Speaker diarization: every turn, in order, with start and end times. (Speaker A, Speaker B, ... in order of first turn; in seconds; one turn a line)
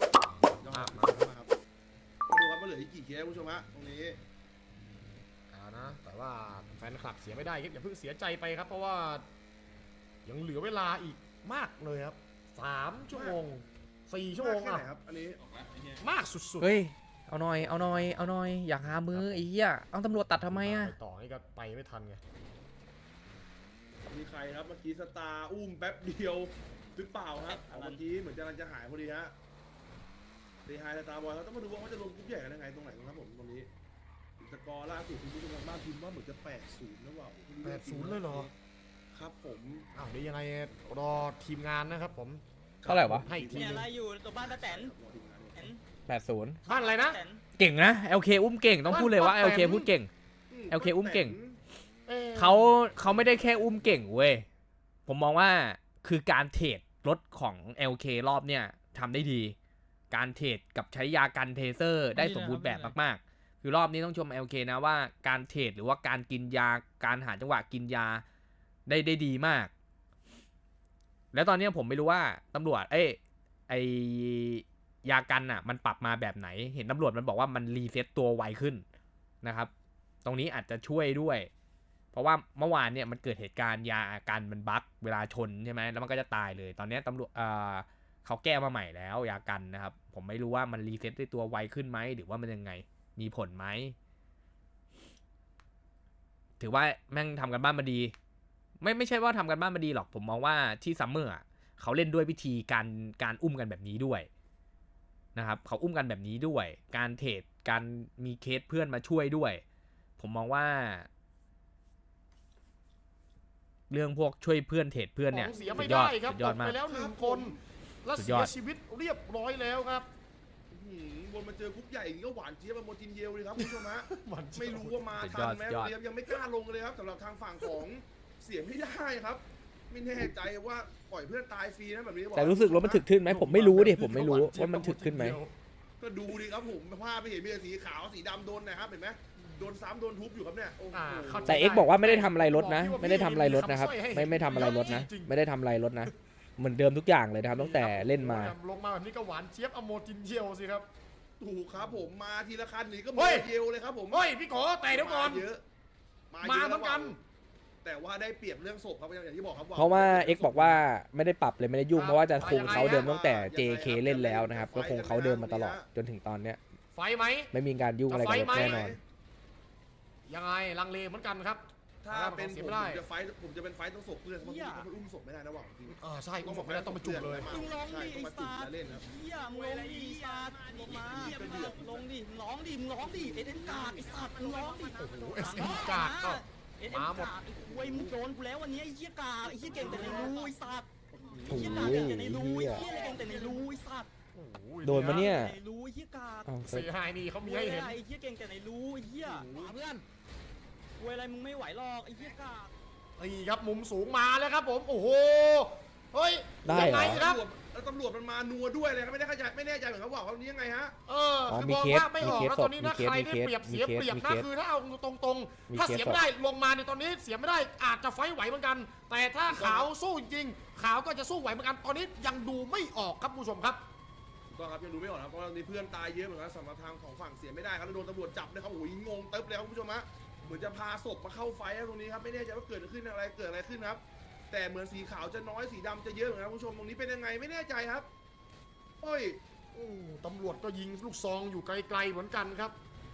Speaker A: 0.6-1.5
Speaker B: 0.7-1.3
Speaker A: 2.3-4.2
Speaker B: 5.5-9.3
Speaker B: 10.2-14.9
Speaker A: 13.1-13.4
Speaker A: 14.3-15.9
Speaker B: 16.0-16.7
Speaker C: 16.6-20.9
Speaker B: 17.6-19.5
Speaker B: 20.4-22.2
Speaker A: 24.1-29.3
Speaker D: 27.4-28.1
Speaker A: 30.7-33.7
Speaker A: 34.4-38.5
Speaker B: 37.6-38.5
Speaker A: 39.1-39.9
Speaker B: 39.9-43.9
Speaker A: 42.8-43.9
Speaker C: 42.9-43.3
Speaker D: 43.4-45.0
Speaker A: 44.4-45.8
Speaker D: 45.5-45.8
Speaker C: 46.1-46.6
Speaker D: 46.6-47.4
Speaker B: 46.7-47.2
Speaker C: 47.6-50.1
Speaker B: 48.9-49.9
Speaker A: 50.5-51.6
Speaker C: 50.7-51.4
Speaker B: 52.1-53.0
Speaker C: 52.4-54.5
Speaker A: 53.0-54.1
Speaker C: 55.1-59.6
Speaker C: 60.1-68.2
Speaker C: 68.9-69.7
Speaker C: 71.3-78.8
Speaker C: 79.4-79.7
Speaker C: 80.2-81.5
Speaker C: 82.1-94.0
Speaker C: 96.6-98.1
Speaker C: 98.8-104.3
Speaker C: 105.3-109.6
Speaker C: 110.2-111.1
Speaker C: 113.9-116.8
Speaker B: 115.3-120.1
Speaker A: 115.5-115.9
Speaker A: 116.9-117.6
Speaker C: 118.2-118.5
Speaker A: 120.7-133.0
Speaker B: 123.6-125.1
Speaker C: 125.2-126.0
Speaker C: 132.3-135.4
Speaker B: 133.2-135.5
Speaker A: 136.0-141.6
Speaker B: 139.4-139.7
Speaker B: 140.9-145.3
Speaker C: 141.5-148.6
Speaker B: 147.5-150.9
Speaker A: 151.4-154.3
Speaker B: 151.8-152.1
Speaker B: 153.2-153.5
Speaker B: 154.1-155.5
Speaker A: 154.9-155.6
Speaker A: 156.3-157.2
Speaker B: 156.4-157.2
Speaker A: 157.8-160.8
Speaker C: 159.8-166.6
Speaker B: 161.9-163.1
Speaker A: 162.4-165.9
Speaker B: 166.9-167.5
Speaker C: 167.5-169.0
Speaker B: 168.1-168.9
Speaker A: 168.4-169.0
Speaker B: 170.3-173.0
Speaker A: 172.0-182.1
Speaker D: 174.4-174.9
Speaker B: 175.9-177.5
Speaker D: 177.5-194.1
Speaker A: 183.0-184.3
Speaker B: 185.0-187.4
Speaker A: 187.7-188.1
Speaker A: 189.7-190.5
Speaker B: 189.8-190.5
Speaker A: 191.2-191.8
Speaker C: 191.5-192.9
Speaker B: 194.3-195.4
Speaker C: 194.8-195.6
Speaker D: 195.0-196.5
Speaker C: 196.5-196.9
Speaker B: 196.6-198.0
Speaker D: 197.4-200.0
Speaker B: 199.2-199.9
Speaker D: 201.0-202.7
Speaker B: 203.2-207.4
Speaker C: 206.6-207.2
Speaker A: 206.9-211.0
Speaker B: 211.1-223.8
Speaker C: 211.5-214.5
Speaker C: 215.7-216.2
Speaker A: 219.5-219.9
Speaker A: 224.5-238.1
Speaker A: 239.0-239.4
Speaker B: 239.7-242.8